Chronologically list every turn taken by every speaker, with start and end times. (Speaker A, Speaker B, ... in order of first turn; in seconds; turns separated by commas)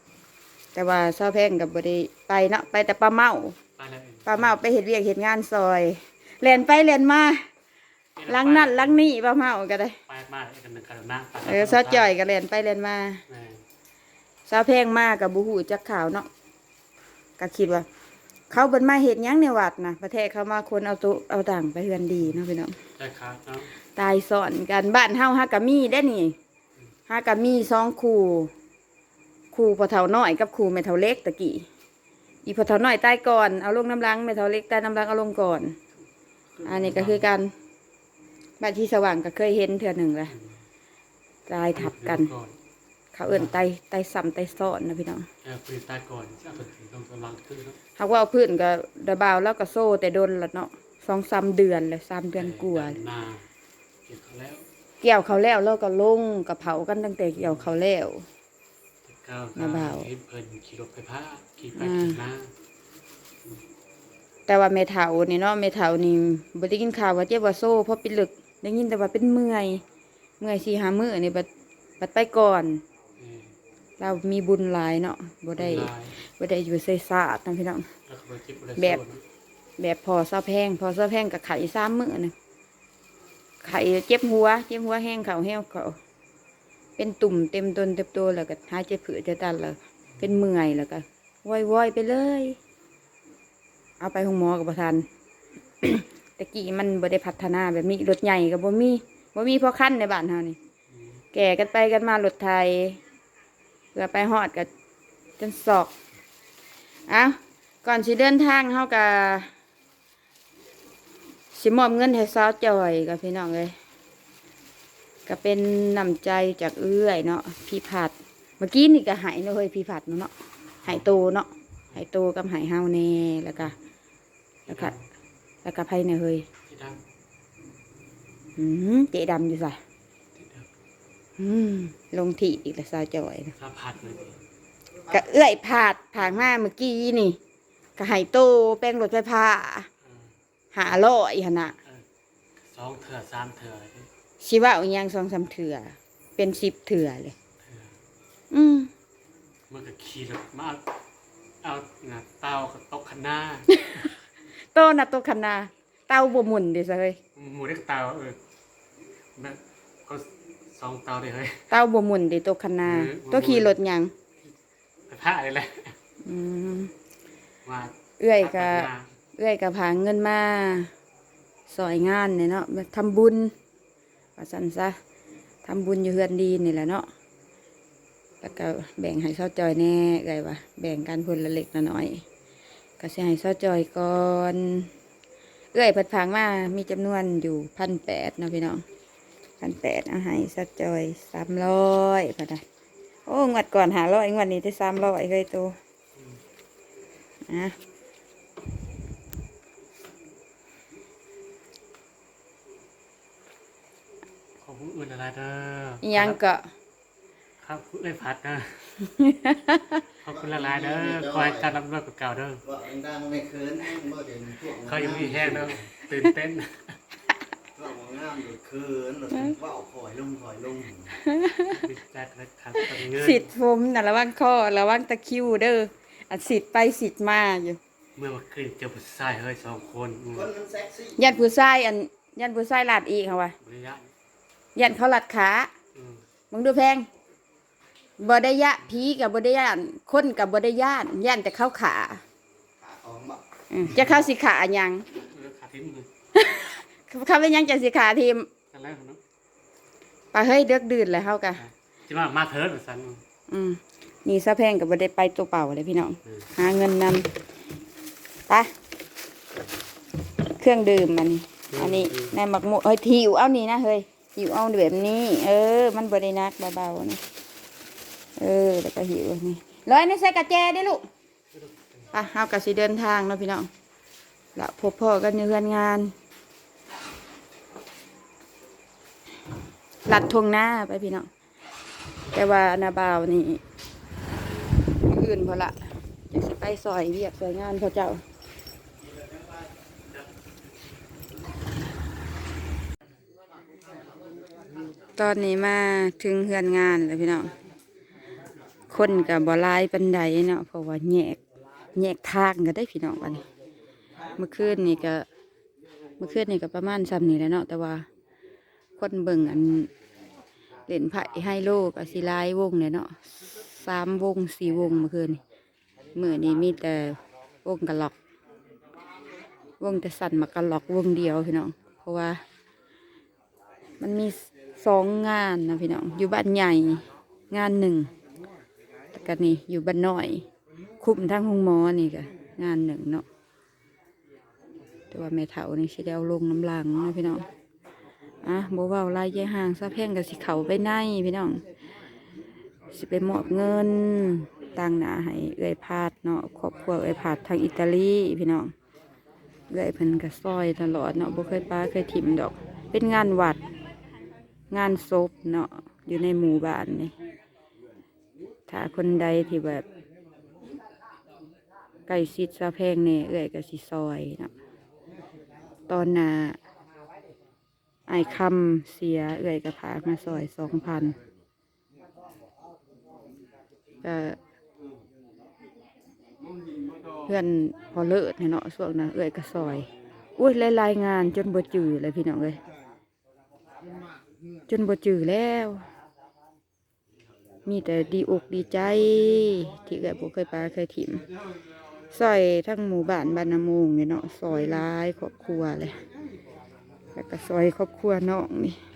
Speaker A: 0.7-3.5, Speaker B: 3.8-4.6, Speaker A: 4.2-7.4, Speaker B: 8.2-9.0, Speaker A: 8.3-9.9, Speaker B: 10.1-12.1, Speaker A: 11.4-13.2, Speaker B: 13.3-13.6, Speaker A: 14.5-16.3, Speaker A: 17.4-17.9, Speaker A: 18.5-22.8, Speaker B: 23.0-23.7, Speaker A: 23.9-26.4, Speaker A: 27.1-28.5, Speaker A: 29.5-31.7, Speaker A: 32.4-35.8, Speaker B: 36.6-37.2, Speaker A: 36.6-37.5, Speaker A: 38.6-40.3, Speaker A: 41.5-42.3, Speaker B: 41.8-42.5, Speaker A: 43.1-45.3, Speaker B: 43.3-43.6, Speaker B: 45.4-47.8, Speaker A: 48.0-53.0, Speaker B: 52.4-53.5, Speaker B: 54.1-54.6, Speaker A: 55.0-58.2, Speaker B: 57.4-57.7, Speaker B: 59.0-62.5, Speaker A: 59.5-60.1, Speaker A: 61.8-62.2, Speaker A: 64.5-69.8, Speaker A: 70.4-71.5, Speaker A: 72.0-72.8, Speaker B: 73.2-73.5, Speaker A: 74.0-77.9, Speaker B: 75.6-76.2, Speaker B: 78.1-79.2, Speaker A: 78.8-79.0, Speaker A: 79.8-82.3, Speaker A: 83.6-86.0, Speaker A: 87.0-92.6, Speaker A: 94.0-95.0, Speaker A: 95.8-100.6, Speaker A: 101.3-103.0, Speaker A: 103.9-104.7, Speaker A: 105.4-105.9, Speaker A: 107.1-109.5, Speaker A: 111.5-113.7, Speaker A: 115.2-120.3, Speaker A: 120.8-123.7, Speaker B: 124.7-125.0, Speaker A: 124.7-124.9, Speaker A: 125.6-126.5, Speaker B: 126.7-127.0, Speaker A: 128.6-129.8, Speaker B: 130.3-130.7, Speaker A: 131.4-133.5, Speaker B: 133.6-134.4, Speaker A: 135.1-137.4, Speaker A: 138.0-139.9, Speaker B: 140.0-140.3, Speaker A: 140.7-141.7, Speaker B: 142.6-144.1, Speaker A: 144.4-147.3, Speaker B: 147.6-147.9, Speaker A: 148.5-148.9, Speaker B: 149.7-150.8, Speaker B: 151.6-154.1, Speaker A: 153.7-154.0, Speaker A: 154.7-157.2, Speaker B: 157.3-158.4, Speaker B: 159.3-161.6, Speaker A: 161.7-164.1, Speaker B: 162.8-163.7, Speaker B: 165.1-166.0, Speaker A: 166.2-166.9, Speaker B: 167.7-169.1, Speaker A: 168.2-170.9, Speaker A: 171.7-173.5, Speaker A: 174.3-175.0, Speaker A: 175.6-177.1, Speaker A: 178.4-182.2, Speaker A: 183.0-184.9, Speaker A: 185.7-188.8, Speaker A: 189.6-192.6, Speaker A: 193.3-195.8, Speaker A: 197.5-197.7, Speaker B: 204.6-206.4, Speaker A: 206.0-206.7, Speaker B: 207.6-208.9, Speaker A: 209.1-209.9, Speaker B: 210.2-212.6, Speaker C: 210.3-211.7, Speaker C: 212.7-215.8, Speaker B: 214.8-217.0, Speaker C: 217.7-221.2, Speaker A: 221.2-221.8, Speaker B: 221.7-223.5, Speaker A: 222.9-227.8, Speaker B: 228.2-230.5, Speaker C: 230.3-231.3, Speaker A: 231.2-233.5, Speaker B: 233.6-234.1, Speaker A: 234.8-235.7, Speaker B: 235.9-236.2, Speaker A: 236.5-237.1, Speaker A: 238.2-242.2, Speaker C: 242.8-243.4, Speaker A: 243.7-245.0, Speaker B: 243.9-244.2, Speaker B: 245.2-246.1, Speaker A: 246.3-248.5, Speaker B: 248.7-249.2, Speaker A: 250.3-251.6, Speaker B: 251.6-253.2, Speaker A: 253.5-257.3, Speaker A: 260.6-267.2, Speaker B: 261.7-262.3, Speaker A: 268.4-271.0, Speaker A: 272.1-273.7, Speaker A: 274.5-276.1, Speaker A: 280.1-281.3, Speaker A: 282.3-283.6, Speaker A: 285.0-288.2, Speaker A: 295.2-297.5, Speaker A: 298.9-301.4, Speaker A: 301.9-303.4, Speaker A: 304.4-305.2, Speaker A: 306.2-308.1, Speaker A: 309.0-309.9, Speaker A: 310.9-313.1, Speaker A: 313.7-315.4, Speaker A: 316.1-318.1, Speaker A: 319.8-322.4, Speaker A: 324.0-328.1, Speaker A: 329.1-330.5, Speaker A: 331.0-333.2, Speaker A: 335.1-337.4, Speaker A: 338.4-341.6, Speaker A: 342.9-348.7, Speaker A: 349.7-353.6, Speaker A: 354.7-357.1, Speaker A: 358.7-359.8, Speaker A: 362.1-364.5, Speaker A: 365.9-366.6, Speaker A: 368.1-371.1, Speaker A: 374.0-374.4, Speaker A: 377.2-382.6, Speaker A: 384.7-385.8, Speaker A: 387.6-391.2, Speaker A: 392.1-395.9, Speaker A: 397.1-398.8